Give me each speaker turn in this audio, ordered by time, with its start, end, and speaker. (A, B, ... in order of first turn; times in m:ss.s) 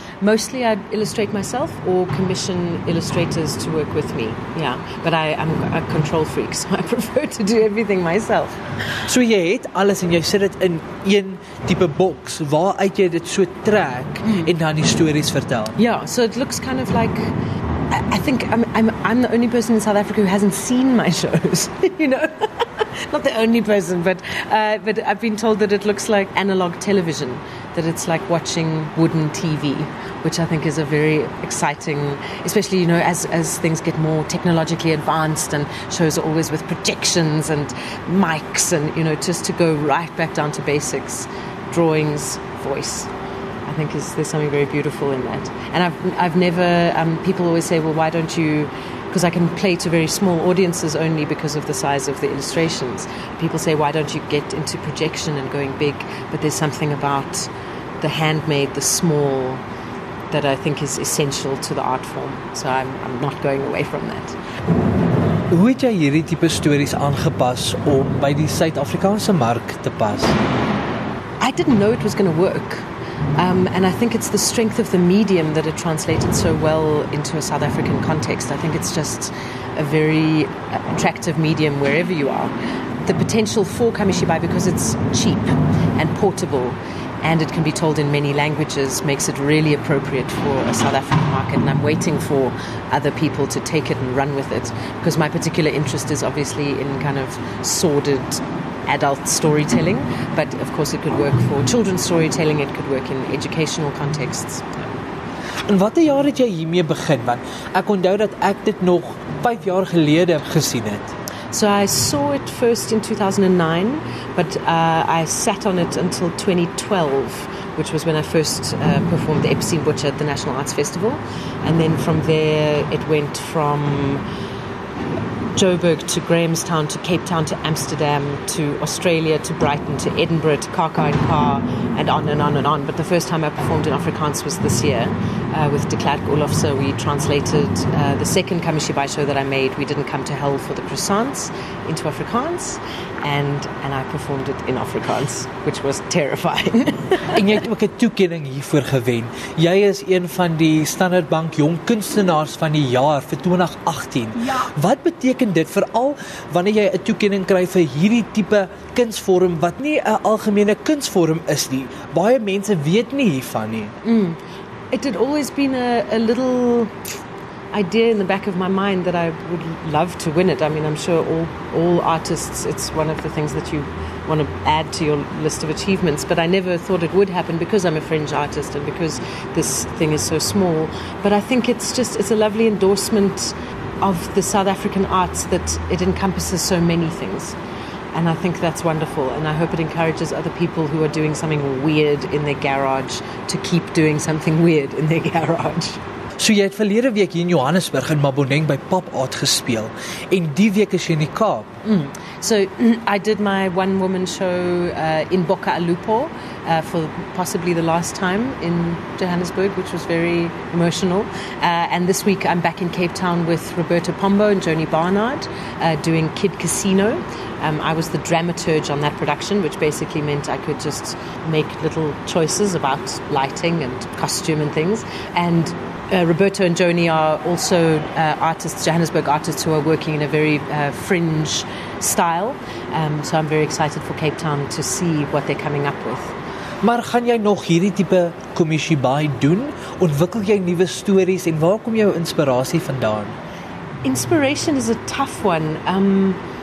0:00.2-0:08.6 A
0:09.1-0:15.8 B
0:15.8-0:17.3 A
0:17.9-0:43.1 A
0:43.7-0:59.6 A
1:00.3-1:04.3 A
1:05.5-1:10.4 B
1:11.4-1:12.8 A
1:13.4-1:22.5 A
1:23.0-1:44.9 A
1:45.7-1:51.1 B
1:51.5-2:04.2 A
2:05.6-2:27.4 A
2:27.3-2:43.9 B
2:44.0-2:44.4 A
2:44.9-2:47.1 A
2:47.7-3:07.5 A
3:08.1-3:16.0 A
3:16.4-3:21.7 B
3:21.8-3:56.3 A
3:56.8-4:03.3 B
4:04.0-4:06.4 A